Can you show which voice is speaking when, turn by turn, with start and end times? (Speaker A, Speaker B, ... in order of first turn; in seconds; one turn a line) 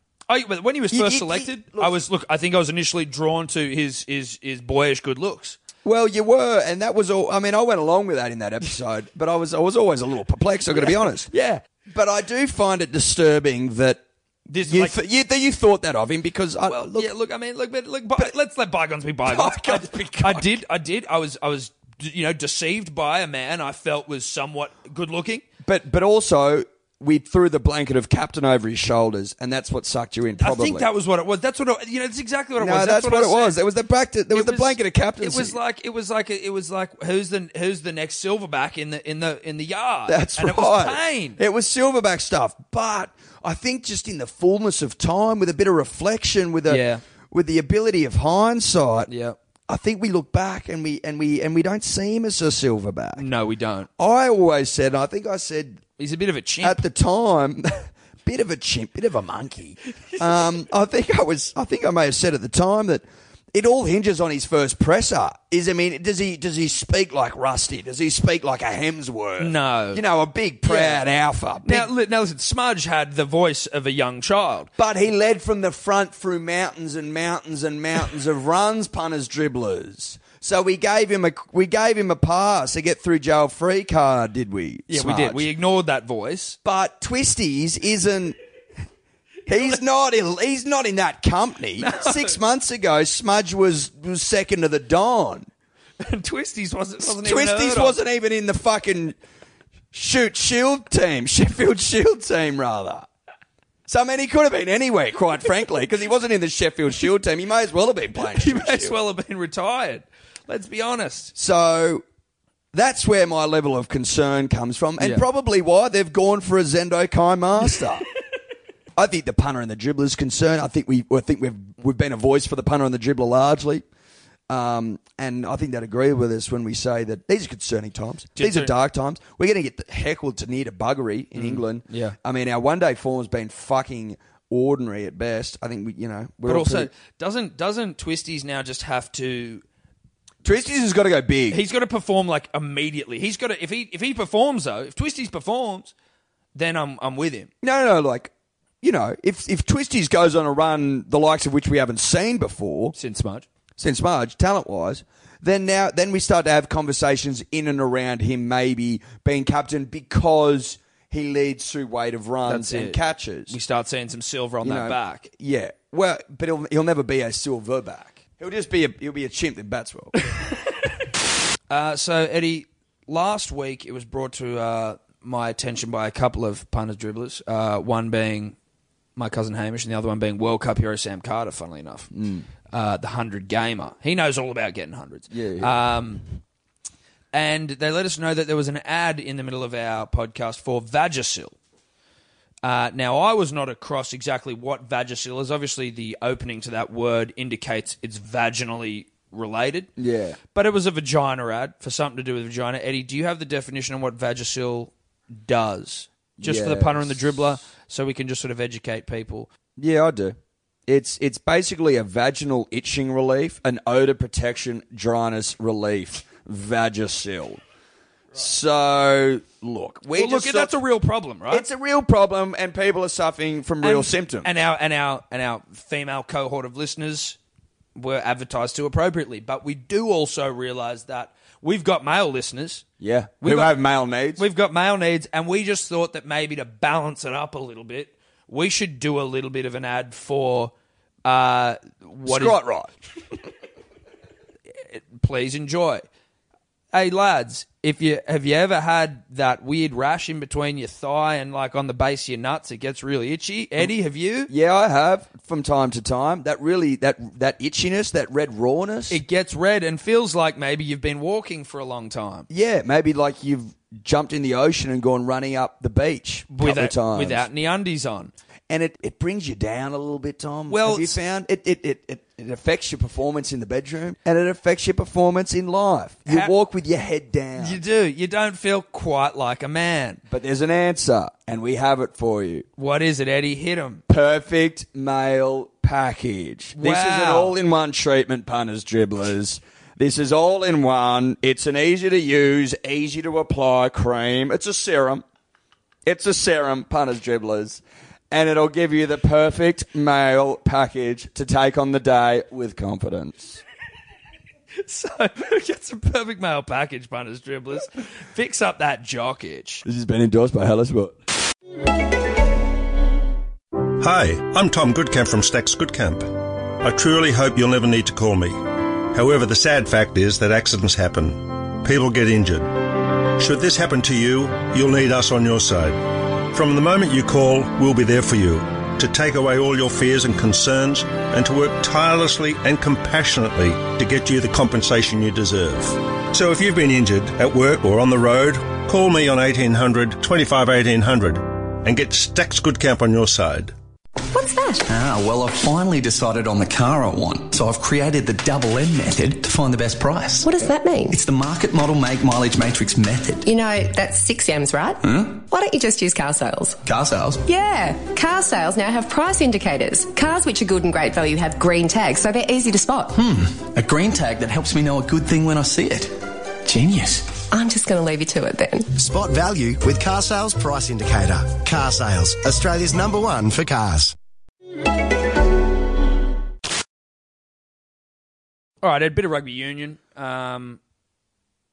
Speaker A: 0.3-5.6
Speaker B: 0.9-2.0
Speaker B: 5.8-11.3
Speaker A: 10.7-11.6
Speaker B: 11.9-14.0
Speaker A: 14.5-14.9
Speaker B: 14.7-17.1
Speaker A: 16.7-25.4
Speaker B: 19.2-20.5
Speaker B: 25.6-30.9
Speaker A: 30.4-33.6
Speaker B: 32.6-35.6
Speaker A: 34.3-41.4
Speaker B: 40.1-49.1
Speaker A: 46.7-47.0
Speaker A: 49.1-49.4
Speaker B: 49.7-53.2
Speaker A: 53.2-53.9
Speaker B: 54.0-55.8
Speaker A: 56.0-56.8
Speaker B: 56.6-71.9
Speaker A: 69.4-70.0
Speaker A: 70.7-71.0
Speaker A: 71.7-74.7
Speaker B: 74.8-85.5
Speaker A: 84.9-86.6
Speaker B: 86.6-88.4
Speaker B: 89.5-95.5
Speaker A: 91.8-92.4
Speaker A: 96.0-98.0
Speaker B: 97.0-99.2
Speaker B: 99.9-103.1
Speaker B: 103.9-109.0
Speaker A: 108.3-111.3
Speaker B: 111.3-112.0
Speaker B: 112.7-118.1
Speaker A: 115.0-115.2
Speaker B: 119.0-123.8
Speaker B: 124.5-136.9
Speaker A: 128.4-128.8
Speaker A: 131.3-132.2
Speaker A: 136.5-139.6
Speaker B: 140.4-141.6
Speaker A: 141.5-145.9
Speaker A: 146.6-147.5
Speaker B: 147.6-148.3
Speaker B: 148.8-152.9
Speaker A: 152.9-153.5
Speaker B: 153.8-163.6
Speaker A: 162.5-165.3
Speaker B: 164.6-170.2
Speaker A: 171.7-178.6
Speaker A: 179.2-182.1
Speaker B: 182.1-182.5
Speaker A: 182.7-186.2
Speaker B: 185.3-185.8
Speaker A: 187.3-191.6
Speaker A: 192.6-199.9
Speaker B: 200.0-200.4
Speaker A: 200.5-209.5
Speaker B: 206.4-207.3
Speaker B: 209.8-217.6
Speaker B: 218.3-220.7
Speaker A: 220.1-221.7
Speaker B: 221.5-224.5
Speaker A: 223.8-227.4
Speaker A: 227.9-232.8
Speaker B: 233.0-234.4
Speaker A: 233.4-233.8
Speaker A: 234.4-240.7
Speaker A: 241.2-242.6
Speaker B: 242.3-242.9
Speaker A: 244.8-246.0
Speaker A: 246.9-254.5
Speaker B: 254.5-259.2
Speaker A: 259.1-262.5
Speaker B: 262.5-267.5
Speaker A: 266.5-268.3
Speaker B: 268.7-277.8
Speaker A: 270.7-271.2
Speaker A: 276.3-276.5
Speaker A: 277.6-280.2
Speaker B: 280.3-282.7
Speaker A: 282.8-284.0
Speaker B: 284.1-295.2
Speaker A: 286.8-287.6
Speaker B: 296.1-303.6
Speaker A: 304.8-309.9
Speaker B: 309.9-311.2
Speaker C: 313.9-318.6
Speaker C: 319.1-343.7
Speaker D: 344.3-344.9
Speaker E: 344.9-350.5
Speaker D: 350.4-351.2
Speaker E: 351.1-353.5
Speaker D: 353.5-356.8
Speaker E: 355.0-355.3
Speaker E: 356.8-357.4
Speaker D: 357.4-363.2
Speaker E: 363.1-366.1
Speaker E: 366.6-367.3
Speaker D: 367.5-368.9
Speaker F: 369.0-374.1
Speaker A: 378.8-380.8